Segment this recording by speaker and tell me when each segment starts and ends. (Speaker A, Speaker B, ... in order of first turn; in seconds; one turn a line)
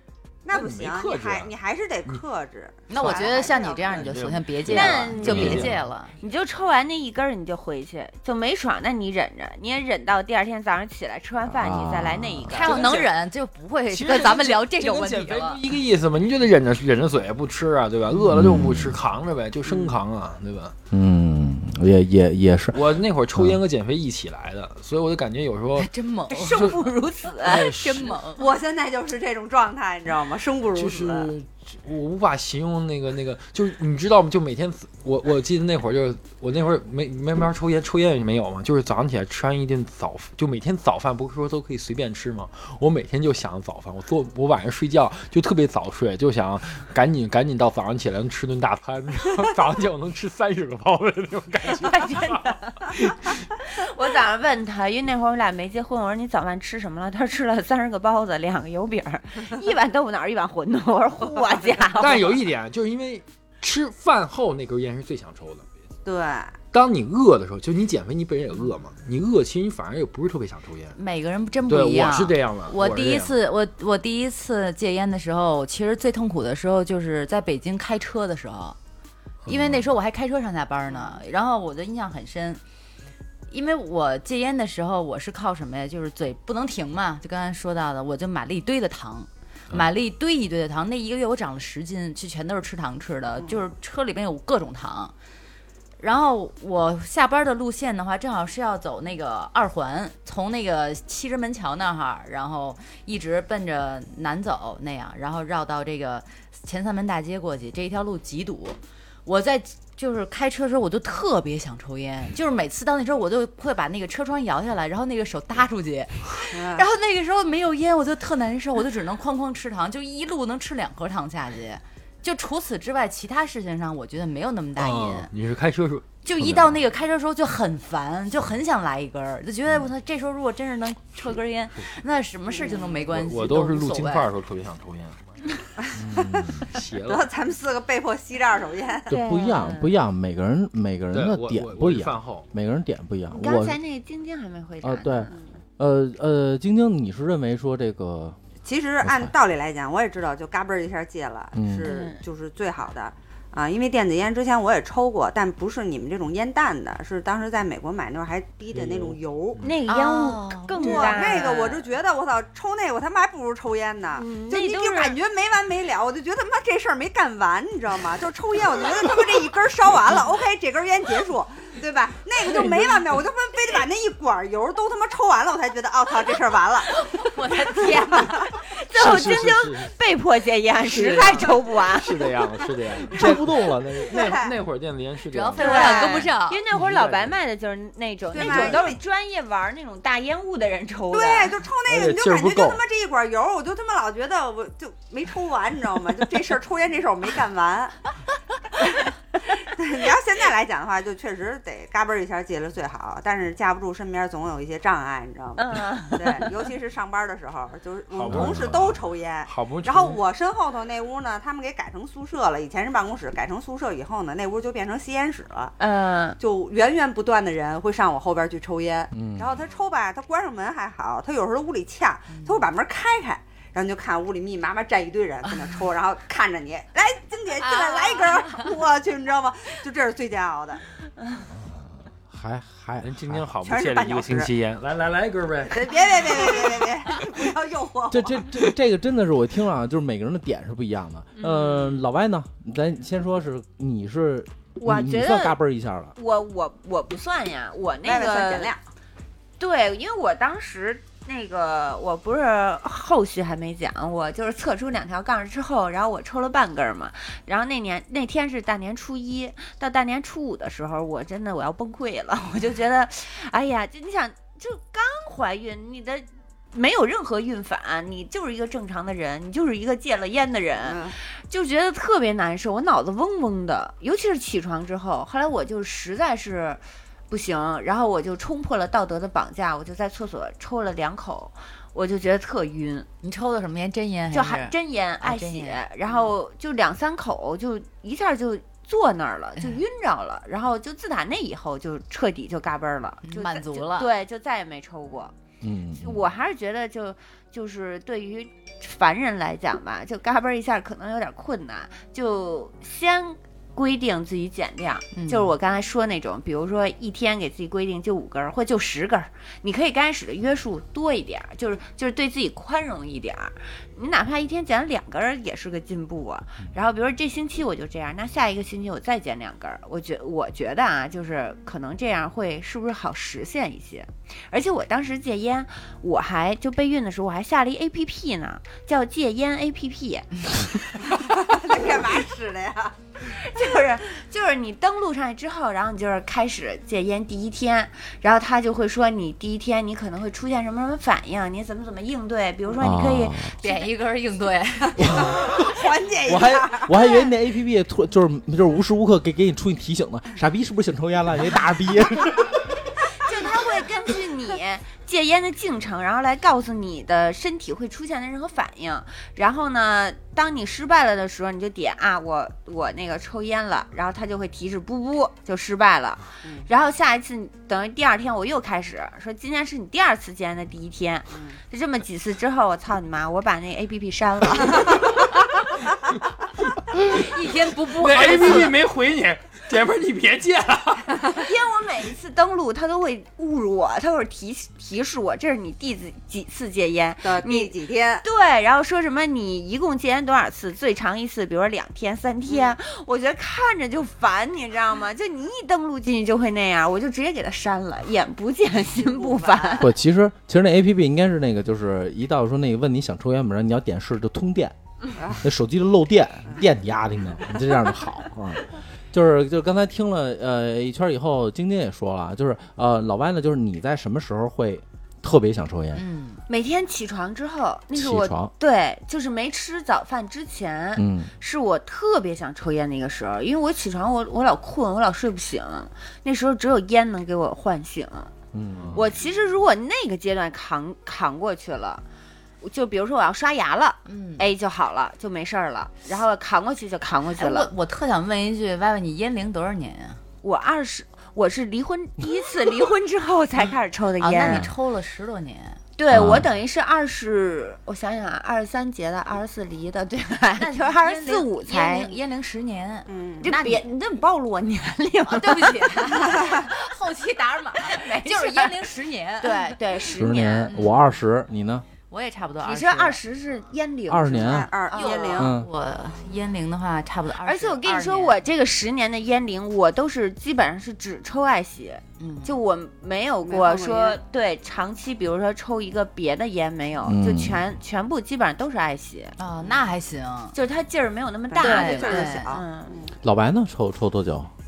Speaker A: 0.4-4.1
Speaker B: 0.5-1.5
Speaker C: 2.9-6.1
Speaker B: 3.0-5.7
Speaker D: 4.7-12.9
Speaker E: 5.2-5.7
Speaker E: 11.5-12.5
Speaker C: 12.5-15.6
Speaker B: 12.5-13.1
Speaker B: 13.9-20.7
Speaker E: 18.3-19.0
Speaker E: 20.9-23.6
Speaker B: 22.7-25.9
Speaker C: 25.8-26.8
Speaker D: 26.3-27.7
Speaker B: 26.5-26.8
Speaker B: 27.4-28.2
Speaker C: 27.4-28.4
Speaker A: 28.4-31.3
Speaker B: 30.7-53.4
Speaker D: 51.7-52.7
Speaker D: 53.6-62.4
Speaker B: 62.0-65.7
Speaker A: 66.0-66.6
Speaker B: 66.7-71.0
Speaker C: 71.0-78.8
Speaker B: 71.7-73.3
Speaker B: 79.4-79.9
Speaker C: 79.5-82.6
Speaker D: 80.9-81.2
Speaker C: 83.5-95.1
Speaker C: 96.0-125.3
Speaker A: 116.5-116.9
Speaker B: 124.8-126.7
Speaker C: 126.2-134.3
Speaker A: 132.5-132.8
Speaker B: 133.1-135.4
Speaker A: 135.8-139.1
Speaker E: 136.0-136.7
Speaker B: 136.7-137.3
Speaker D: 139.1-139.9
Speaker E: 139.1-143.8
Speaker B: 141.1-142.4
Speaker D: 143.3-145.4
Speaker E: 144.8-148.4
Speaker A: 148.6-159.6
Speaker E: 149.0-149.3
Speaker E: 151.5-151.9
Speaker D: 151.8-152.2
Speaker B: 158.7-159.8
Speaker D: 159.6-161.8
Speaker C: 159.9-161.6
Speaker A: 160.8-177.0
Speaker D: 164.1-165.2
Speaker B: 172.4-173.2
Speaker C: 176.9-178.5
Speaker D: 178.5-182.3
Speaker B: 178.9-179.9
Speaker B: 180.8-186.0
Speaker E: 183.1-184.4
Speaker A: 184.1-184.5
Speaker C: 185.3-186.6
Speaker D: 185.6-191.6
Speaker A: 185.6-186.3
Speaker B: 186.7-187.3
Speaker A: 188.3-189.0
Speaker A: 191.1-198.1
Speaker B: 191.9-192.8
Speaker A: 199.4-215.8
Speaker D: 205.6-206.5
Speaker B: 208.1-210.2
Speaker E: 208.3-208.8
Speaker D: 215.8-216.4
Speaker A: 216.4-230.8
Speaker E: 219.1-219.5
Speaker C: 222.3-222.7
Speaker C: 227.7-228.4
Speaker E: 231.5-233.5
Speaker B: 233.0-236.7
Speaker A: 233.6-234.5
Speaker A: 235.7-238.4
Speaker E: 238.1-246.1
Speaker D: 241.3-242.0
Speaker D: 244.8-245.6
Speaker D: 246.2-248.7
Speaker A: 248.0-248.8
Speaker D: 249.6-283.1
Speaker A: 270.8-271.1
Speaker C: 283.2-285.8
Speaker D: 284.3-295.3
Speaker C: 293.2-294.1
Speaker E: 295.6-296.1
Speaker D: 296.0-330.6
Speaker C: 305.1-305.5
Speaker A: 331.1-333.1
Speaker D: 333.2-343.9
Speaker E: 342.8-343.5
Speaker C: 343.6-345.2
Speaker E: 345.0-345.7
Speaker A: 345.0-346.9
Speaker E: 346.2-352.6
Speaker D: 353.2-375.2
Speaker A: 366.4-366.7
Speaker A: 371.3-371.6
Speaker B: 376.9-377.3
Speaker C: 377.1-378.7
Speaker B: 377.9-381.2
Speaker D: 381.2-399.9
Speaker A: 387.2-388.2
Speaker A: 392.5-392.7
Speaker A: 398.8-399.9
Speaker E: 399.8-404.8
Speaker A: 405.2-405.4
Speaker E: 405.4-416.0
Speaker C: 415.9-416.4
Speaker D: 416.5-428.3
Speaker E: 417.9-418.5
Speaker E: 421.0-421.3
Speaker E: 428.5-429.1
Speaker B: 428.8-429.0
Speaker D: 428.9-432.0
Speaker D: 432.6-437.7
Speaker C: 434.1-434.4
Speaker C: 437.4-440.2
Speaker D: 440.4-444.6
Speaker C: 444.2-445.8
Speaker D: 446.0-452.2
Speaker E: 446.1-446.5
Speaker C: 450.6-453.8
Speaker A: 453.1-453.5
Speaker D: 453.4-456.7
Speaker C: 455.3-460.1
Speaker D: 457.8-460.8
Speaker E: 460.1-461.9
Speaker C: 460.7-461.2
Speaker C: 462.1-463.2
Speaker D: 462.6-465.5
Speaker E: 464.1-464.7
Speaker A: 464.3-465.5
Speaker C: 464.9-468.4
Speaker E: 465.4-465.7
Speaker D: 467.4-479.8
Speaker C: 472.2-472.6
Speaker A: 473.4-474.2
Speaker E: 477.0-477.6
Speaker C: 479.4-480.6
Speaker D: 480.5-483.0
Speaker A: 481.5-483.1
Speaker C: 481.6-482.5
Speaker E: 483.2-484.5